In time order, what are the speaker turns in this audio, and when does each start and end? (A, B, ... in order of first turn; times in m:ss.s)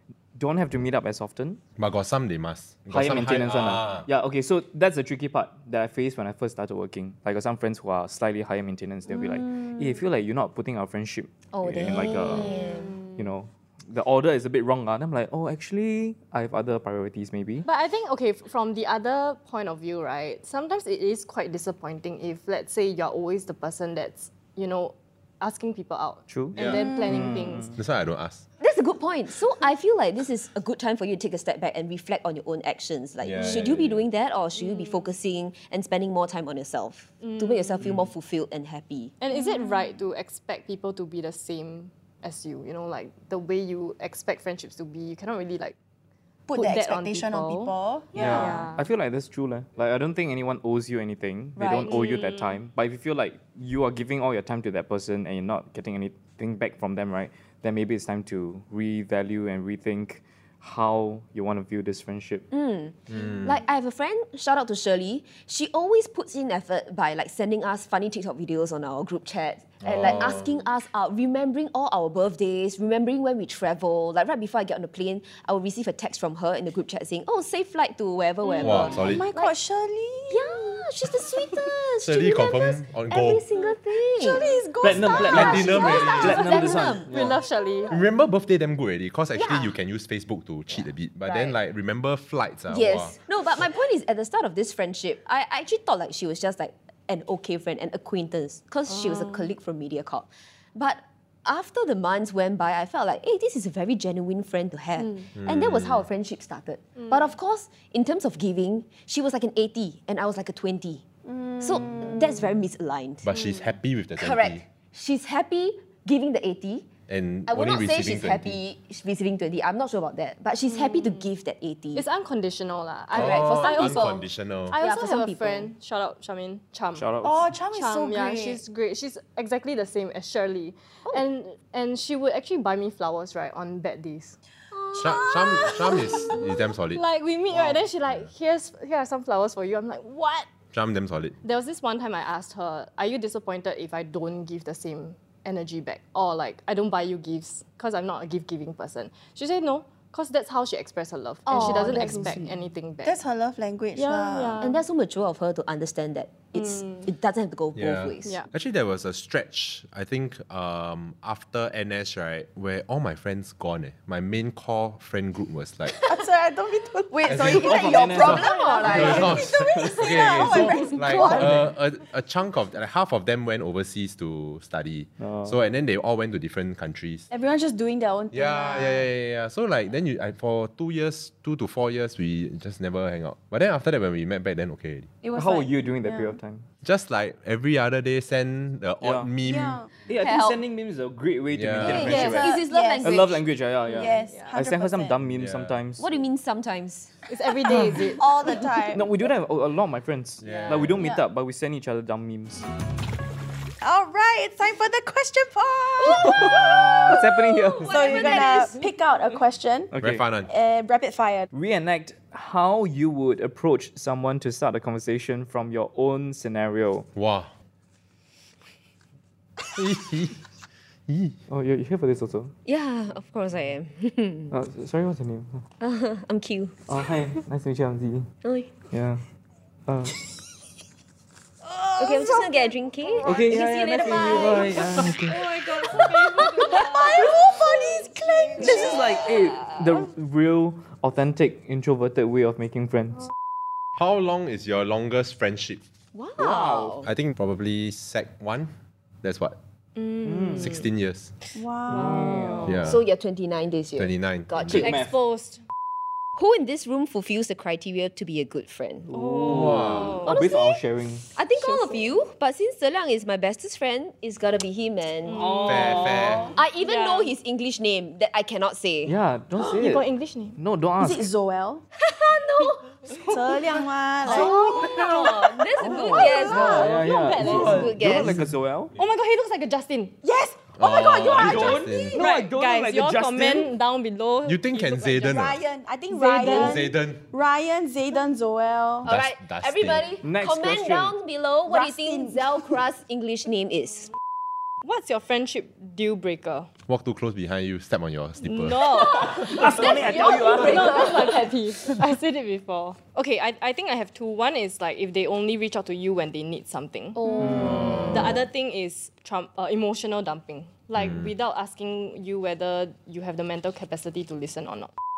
0:00.4-0:01.6 A
0:01.8-0:04.1 B
0:02.9-0:12.6 A
0:11.5-0:13.0 C
0:12.4-0:13.1 D
0:13.2-0:17.7 A
0:17.6-0:27.8 D
0:26.3-0:27.8 A
0:26.6-0:26.8 B
0:26.7-0:27.4 E
0:27.8-0:28.4 B
0:28.6-0:39.1 C
0:33.2-0:34.0 B
0:34.6-0:35.1 D
0:37.2-0:37.8 D
0:37.8-0:38.1 B
0:39.2-0:45.8 D
0:39.3-0:39.9 E
0:46.5-0:48.7 E
0:46.5-0:48.9 D
0:48.2-1:02.5 A
0:51.6-0:51.9 C
0:51.8-0:52.6 D
1:02.5-1:19.5 C
1:03.1-1:03.6 B
1:09.8-1:10.5 B
1:18.4-1:18.9 D
1:18.6-1:19.3 B
1:18.8-1:20.9 E
1:20.3-1:24.5 C
1:22.0-1:23.4 B
1:24.2-1:26.6 E
1:24.8-1:27.4 A
1:25.0-1:26.5 B
1:25.2-1:27.1 C
1:27.1-1:28.0 D
1:27.9-1:33.2 B
1:29.4-1:29.7 C
1:31.3-1:31.5 C
1:32.7-1:51.0 C
1:39.0-1:39.5 D
1:45.4-1:46.1 B
1:47.0-1:47.3 D
1:51.3-1:52.4 E
1:51.6-1:53.3 C
1:53.2-1:54.6 B
1:54.2-1:56.9 C
1:57.1-1:58.6 B
1:57.5-2:02.1 C
2:00.7-2:01.3 D
2:02.0-2:07.1 D
2:03.1-2:04.8 B
2:03.1-2:04.2 C
2:04.7-2:05.7 C
2:07.0-2:07.5 A
2:07.2-2:08.6 E
2:07.7-2:14.4 D
2:14.7-2:16.3 C
2:15.0-2:17.0 B
2:15.3-2:20.5 D
2:20.7-2:21.4 B
2:21.4-2:33.2 D
2:31.5-2:32.4 C
2:31.5-2:32.5 E
2:33.0-2:34.6 E
2:34.0-2:34.8 D
2:34.6-2:38.4 C
2:36.6-2:37.1 D
2:37.8-2:46.0 B
2:45.9-2:51.7 E
2:47.1-2:49.4 C
2:47.3-2:57.3 B
2:47.4-2:51.6 A
2:51.1-2:51.4 C
2:55.2-2:55.6 A
2:57.3-2:59.1 E
2:58.3-3:05.1 B
3:05.2-3:06.4 E
3:05.4-3:06.6 A
3:06.8-3:09.8 B
3:09.0-3:09.3 A
3:09.4-3:09.9 E
3:10.1-3:16.1 A
3:10.2-3:10.6 C
3:11.5-3:12.5 B
3:11.8-3:13.4 C
3:11.9-3:15.2 E
3:13.9-3:14.5 D
3:15.3-3:15.8 B
3:16.0-3:17.2 C
3:17.3-3:18.3 D
3:17.7-3:19.1 E
3:17.8-3:18.0 A
3:18.9-3:22.7 A
3:20.4-3:21.0 B
3:20.4-3:20.9 D
3:23.8-3:27.3 E
3:26.1-3:28.3 A
3:26.3-3:27.2 B
3:27.4-3:28.9 C
3:27.8-3:29.9 E
3:28.1-3:28.7 D
3:29.9-3:30.2 A
3:30.0-3:30.5 B
3:30.4-3:31.5 E
3:31.5-3:37.1 A
3:37.2-3:37.5 B
3:39.7-3:40.4 B
3:41.1-3:41.4 B
3:41.5-3:42.5 A
3:42.7-3:44.5 C
3:44.5-3:45.6 A
3:45.8-3:46.8 C
3:46.9-3:48.3 A
3:48.4-3:48.7 C
3:48.9-3:49.2 A
3:49.9-3:50.2 A
3:51.6-3:54.5 E
3:52.0-3:55.1 C
3:53.2-3:55.5 A
3:55.3-3:57.4 D
3:55.6-3:59.2 E
3:55.8-3:57.6 C
3:58.1-3:59.8 C
3:58.6-4:03.3 A
4:04.0-4:05.8 B
4:06.1-4:07.1 C
4:06.4-4:07.0 A
4:07.0-4:09.6 B
4:10.0-4:10.8 D
4:10.2-4:10.8 A
4:10.6-4:11.3 B
4:11.6-4:12.5 E
4:11.9-4:12.9 A
4:11.9-4:12.8 D
4:12.7-4:13.0 B
4:12.8-4:15.0 C
4:14.0-4:14.9 B
4:14.7-4:15.2 A
4:14.7-4:15.6 D
4:16.4-4:19.1 C
4:19.1-4:21.3 A
4:19.1-4:20.4 D
4:19.5-4:20.2 B
4:20.2-4:20.8 C
4:21.3-4:25.8 C
4:21.6-4:22.0 D
4:25.3-4:27.3 D
4:25.6-4:26.6 B
4:26.5-4:29.2 C
4:29.1-4:31.3 A
4:29.6-4:30.6 D
4:31.0-4:31.8 E
4:32.0-4:33.3 C
4:33.1-4:34.6 D
4:33.2-4:37.1 E
4:34.2-4:38.4 C
4:35.8-4:39.0 A
4:35.9-4:37.9 D
4:37.7-4:38.4 B
4:39.0-4:40.2 D
4:40.2-4:42.2 E
4:40.8-4:42.2 B
4:41.2-4:43.7 A
4:41.4-4:41.7 C
4:42.2-4:45.5 D
4:44.4-4:45.6 B
4:45.3-4:49.1 E
4:46.1-4:46.8 D
4:46.5-4:47.2 B
4:49.0-4:54.1 C
4:49.0-4:50.1 B
4:50.2-4:51.2 A
4:51.7-4:52.8 E
4:54.8-4:56.7 D
4:56.9-4:59.1 B
4:58.4-5:07.2 D
4:59.0-5:02.0 A
4:59.1-5:01.5 C
5:07.2-5:08.3 C
5:07.4-5:08.2 A
5:07.7-5:08.3 B
5:08.1-5:14.9 D
5:11.0-5:11.3 B